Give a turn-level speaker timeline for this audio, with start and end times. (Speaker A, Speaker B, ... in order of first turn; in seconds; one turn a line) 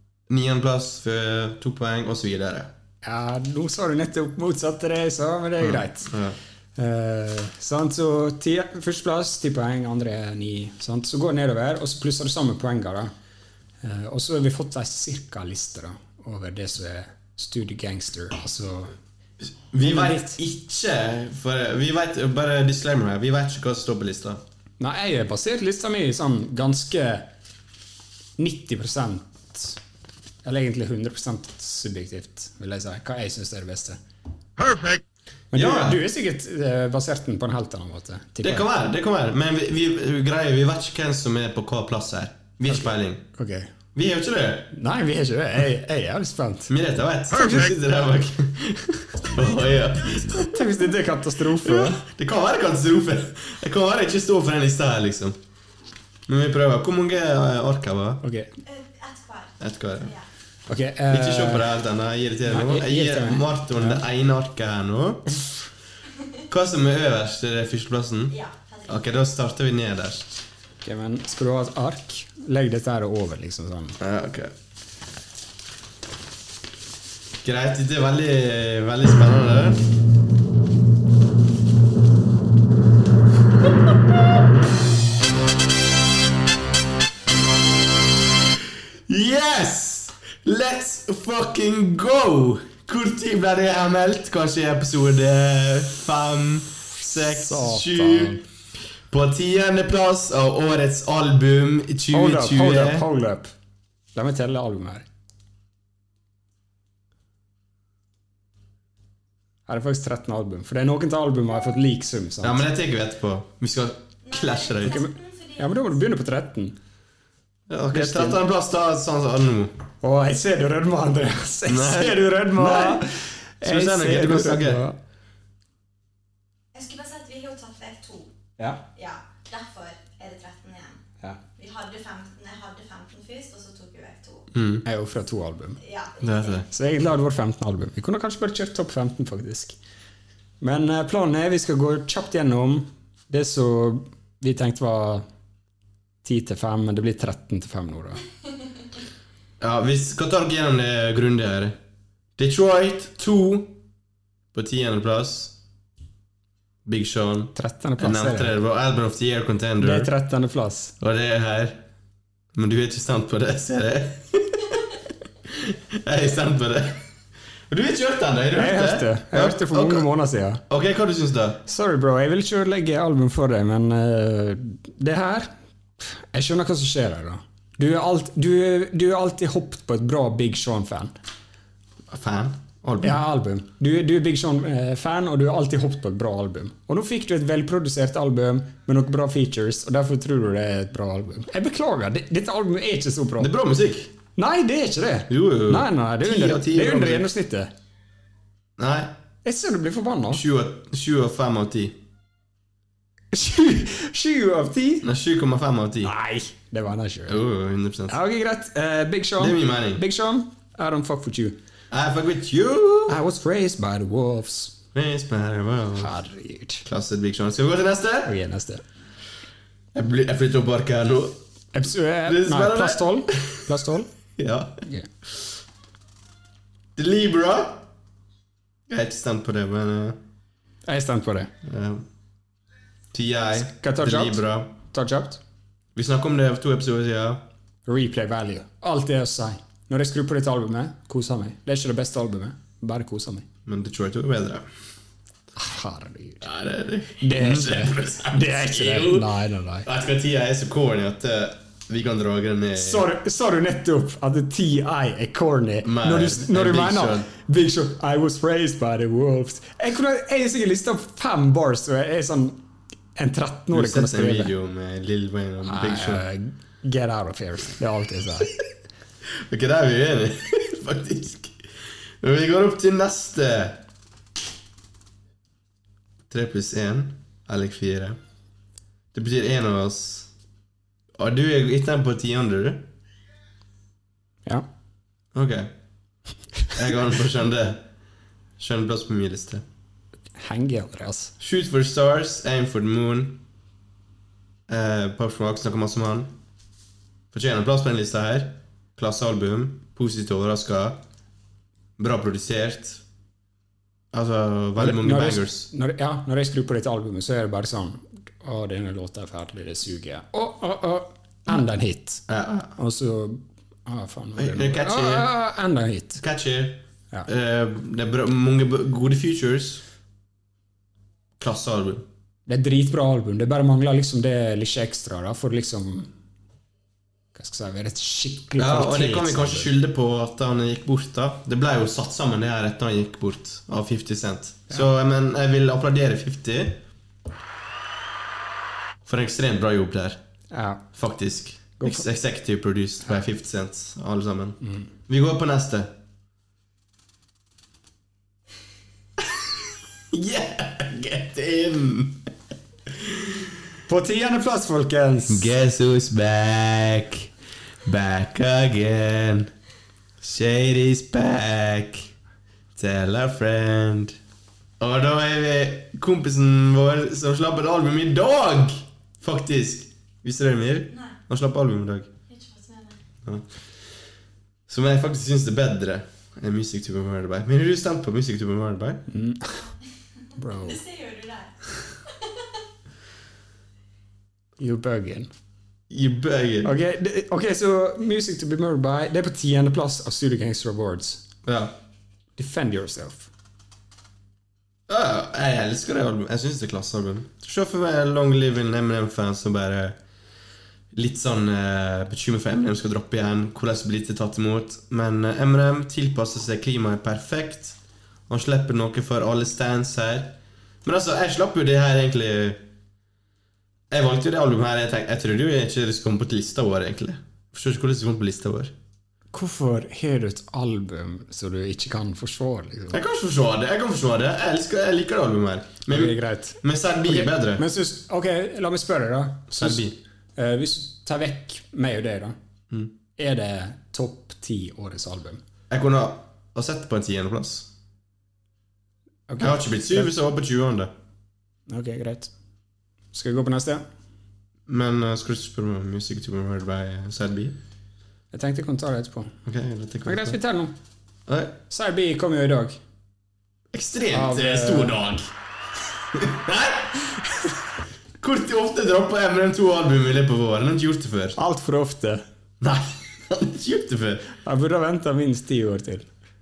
Speaker A: 0.3-2.7
Speaker B: 3.0-6.1
Speaker A: 5.6-6.4
Speaker B: 6.8-13.1
Speaker B: 13.8-18.9
Speaker A: 19.4-24.4
Speaker B: 19.8-20.4
Speaker B: 24.8-27.3
Speaker B: 28.4-29.8
Speaker B: 30.4-34.0
Speaker B: 35.5-38.7
Speaker A: 35.5-36.0
Speaker A: 38.4-43.2
Speaker B: 42.7-43.7
Speaker A: 43.9-44.7
Speaker B: 44.7-46.7
Speaker A: 46.7-50.6
Speaker B: 50.4-52.0
Speaker A: 51.6-55.4
Speaker A: 56.3-58.2
Speaker B: 58.2-58.5
Speaker C: 58.6-60.2
Speaker A: 59.6-60.1
Speaker B: 60.7-61.7
Speaker A: 61.1-65.3
Speaker B: 62.4-64.0
Speaker A: 66.5-68.3
Speaker C: 68.3-69.0
Speaker A: 68.9-70.3
Speaker B: 70.8-74.0
Speaker A: 74.0-74.5
Speaker A: 77.4-79.8
Speaker A: 89.1-98.4
Speaker B: 97.0-98.4
Speaker A: 99.1-103.1
Speaker B: 102.1-103.5
Speaker B: 104.1-105.0
Speaker B: 109.7-112.7
Speaker A: 112.4-115.0
Speaker C: 114.2-116.0
Speaker B: 114.8-116.8
Speaker A: 117.7-119.7
Speaker B: 117.9-118.4
Speaker B: 120.0-125.0
Speaker A: 121.7-123.1
Speaker A: 123.6-124.8
Speaker C: 126.7-128.3
Speaker B: 128.6-128.8
Speaker C: 128.9-131.0
Speaker C: 131.6-134.5
Speaker A: 134.5-134.8
Speaker B: 134.8-135.8
Speaker C: 135.8-136.7
Speaker A: 136.2-136.7
Speaker B: 136.7-139.8
Speaker B: 140.6-145.2
Speaker B: 146.2-148.2
Speaker A: 149.6-151.8
Speaker A: 152.4-153.8
Speaker A: 154.5-155.5
Speaker A: 156.8-160.1
Speaker B: 157.5-158.6
Speaker B: 159.8-160.9
Speaker A: 161.0-161.8
Speaker A: 162.5-165.0
Speaker A: 165.5-167.0
Speaker A: 167.7-170.1
Speaker B: 168.5-170.6
Speaker A: 170.7-171.6
Speaker B: 171.7-181.1
Speaker A: 182.1-183.2
Speaker B: 183.0-193.5
Speaker A: 193.4-194.1
Speaker B: 194.3-197.7
Speaker A: 195.3-197.3
Speaker A: 198.8-199.1
Speaker B: 199.4-200.4
Speaker A: 200.3-202.0
Speaker B: 203.3-205.1
Speaker A: 205.0-206.1
Speaker B: 206.0-207.4
Speaker A: 207.3-208.2
Speaker B: 208.1-211.6
Speaker A: 209.4-210.0
Speaker A: 211.9-213.2
Speaker B: 213.1-214.8
Speaker A: 214.9-216.1
Speaker B: 215.9-216.8
Speaker A: 216.8-218.4
Speaker B: 218.2-218.8
Speaker A: 219.9-221.4
Speaker B: 221.7-224.1
Speaker A: 222.2-223.7
Speaker A: 224.4-224.8
Speaker B: 224.8-225.1
Speaker A: 226.9-227.9
Speaker A: 228.9-230.2
Speaker B: 230.8-231.5
Speaker A: 231.6-232.0
Speaker A: 233.1-234.8
Speaker B: 233.5-235.4
Speaker A: 235.9-237.4
Speaker B: 237.8-243.4
Speaker A: 243.7-244.7
Speaker B: 245.6-246.4
Speaker A: 246.4-249.3
Speaker B: 247.2-249.9
Speaker A: 249.8-253.1
Speaker B: 252.8-262.6
Speaker A: 255.8-257.3
Speaker B: 263.1-264.5
Speaker A: 263.7-266.2
Speaker B: 265.6-268.5
Speaker A: 269.4-271.6
Speaker A: 272.2-273.8
Speaker A: 276.3-278.2
Speaker A: 279.1-280.3
Speaker A: 281.2-282.9
Speaker A: 285.3-285.7
Speaker A: 286.7-287.9
Speaker A: 288.6-289.6
Speaker B: 290.4-291.3
Speaker A: 291.4-293.4
Speaker A: 294.7-296.3
Speaker A: 297.3-301.0
Speaker A: 302.0-303.0
Speaker A: 304.1-305.7
Speaker B: 304.8-312.2
Speaker A: 312.3-312.7
Speaker B: 312.8-316.2
Speaker A: 314.4-315.3
Speaker A: 316.2-319.8
Speaker A: 321.4-322.1
Speaker B: 322.5-326.1
Speaker B: 327.3-329.7
Speaker A: 328.6-336.8
Speaker A: 339.0-340.2
Speaker B: 340.5-340.8
Speaker A: 340.9-345.9
Speaker B: 341.8-342.1
Speaker A: 349.2-349.4
Speaker A: 350.1-352.2
Speaker A: 352.9-353.5
Speaker B: 353.9-355.5
Speaker A: 355.3-357.3
Speaker A: 357.8-359.5
Speaker A: 360.2-362.1
Speaker A: 362.8-364.2
Speaker A: 364.8-372.1
Speaker C: 370.9-371.1
Speaker C: 372.3-373.0
Speaker A: 374.7-379.1
Speaker B: 379.1-379.6
Speaker B: 380.4-380.8
Speaker C: 380.6-382.4
Speaker B: 384.6-385.3
Speaker A: 385.9-386.7
Speaker B: 386.6-391.2
Speaker A: 391.4-391.8
Speaker B: 392.4-393.3
Speaker A: 394.9-400.0
Speaker A: 400.9-407.8
Speaker A: 408.3-412.6
Speaker A: 413.9-418.7
Speaker B: 419.3-423.0
Speaker A: 422.9-427.6
Speaker B: 425.9-432.4
Speaker A: 429.5-429.9
Speaker B: 433.2-435.4
Speaker A: 435.7-437.7
Speaker B: 439.3-440.1
Speaker A: 439.4-440.9
Speaker B: 441.7-442.3
Speaker B: 443.1-443.8
Speaker A: 444.7-447.6
Speaker B: 448.3-449.4
Speaker A: 449.4-450.4
Speaker B: 450.0-450.8
Speaker A: 451.3-451.6
Speaker B: 451.7-452.8
Speaker A: 453.7-455.3
Speaker B: 454.1-455.0
Speaker A: 456.1-457.5
Speaker A: 458.2-461.4
Speaker B: 461.4-462.2
Speaker A: 462.6-464.3
Speaker B: 464.4-466.1